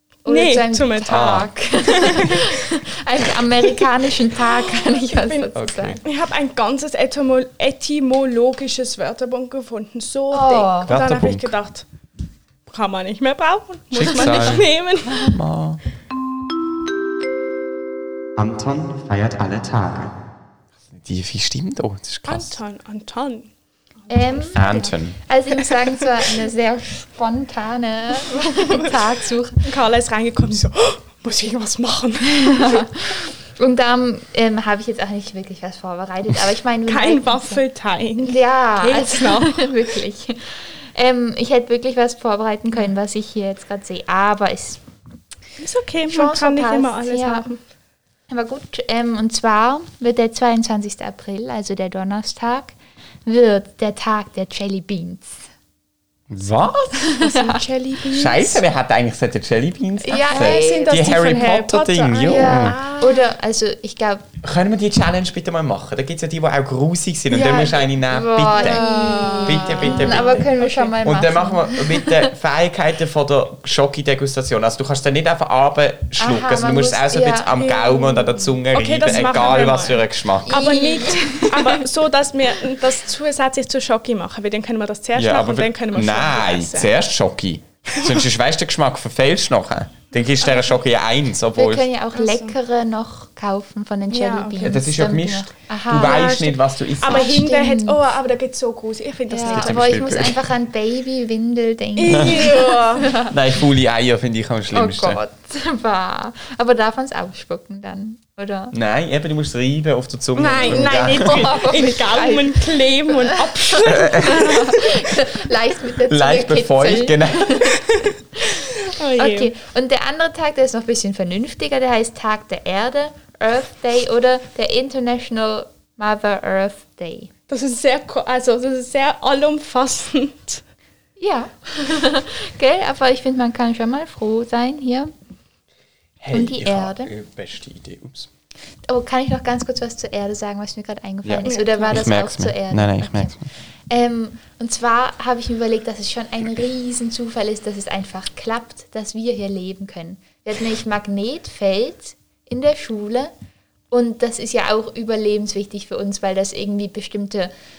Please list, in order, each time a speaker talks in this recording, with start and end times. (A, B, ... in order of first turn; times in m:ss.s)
0:00.2-0:06.0 A
0:00.3-0:02.6 B
0:01.1-0:01.5 C
0:04.7-0:05.5 B
0:05.6-0:06.0 C
0:06.0-0:11.8 B
0:10.3-0:10.9 A
0:10.9-0:11.6 C
0:12.7-0:15.4 B
0:13.9-0:15.8 C
0:18.4-0:20.2 C
0:20.9-0:22.6 C
0:22.3-0:23.5 B
0:24.1-0:24.8 B
0:24.1-0:29.6 A
0:24.6-0:25.2 C
0:25.6-0:26.1 B
0:28.4-0:28.9 B
0:29.6-0:32.9 B
0:32.3-0:37.6 A
0:36.9-0:39.7 B
0:38.2-0:44.8 A
0:45.6-0:47.6 B
0:46.1-0:47.5 A
0:48.3-0:55.4 A
0:56.3-0:57.0 C
0:57.0-0:57.6 A
0:57.1-0:58.6 B
0:58.1-1:02.8 C
1:00.0-1:01.5 A
1:00.1-1:03.3 B
1:02.2-1:04.2 A
1:04.4-1:08.8 C
1:07.3-1:12.3 A
1:07.4-1:07.8 B
1:08.5-1:11.0 B
1:09.4-1:20.6 C
1:16.2-1:18.4 A
1:18.7-1:26.9 B
1:20.4-1:21.9 A
1:25.2-1:31.9 C
1:30.4-1:30.7 B
1:31.6-1:36.5 A
1:32.2-1:32.5 B
1:34.1-1:34.8 B
1:34.6-1:37.4 C
1:35.9-1:40.1 B
1:37.0-1:38.0 A
1:39.3-1:43.3 A
1:39.4-1:40.4 C
1:42.0-1:43.1 B
1:42.1-1:42.6 C
1:43.1-1:45.2 C
1:44.7-1:48.8 A
1:48.7-1:51.6 C
1:50.4-1:54.7 B
1:50.6-1:58.7 A
1:53.8-1:54.9 C
1:56.0-1:57.8 C
1:57.9-1:59.5 B
1:59.2-2:07.3 A
2:07.5-2:10.6 B
2:11.2-2:15.1 A
2:16.2-2:18.3 C
2:16.3-2:17.1 A
2:18.9-2:23.4 A
2:21.2-2:23.5 C
2:21.4-2:22.0 B
2:23.9-2:33.3 A
2:33.9-2:37.5 A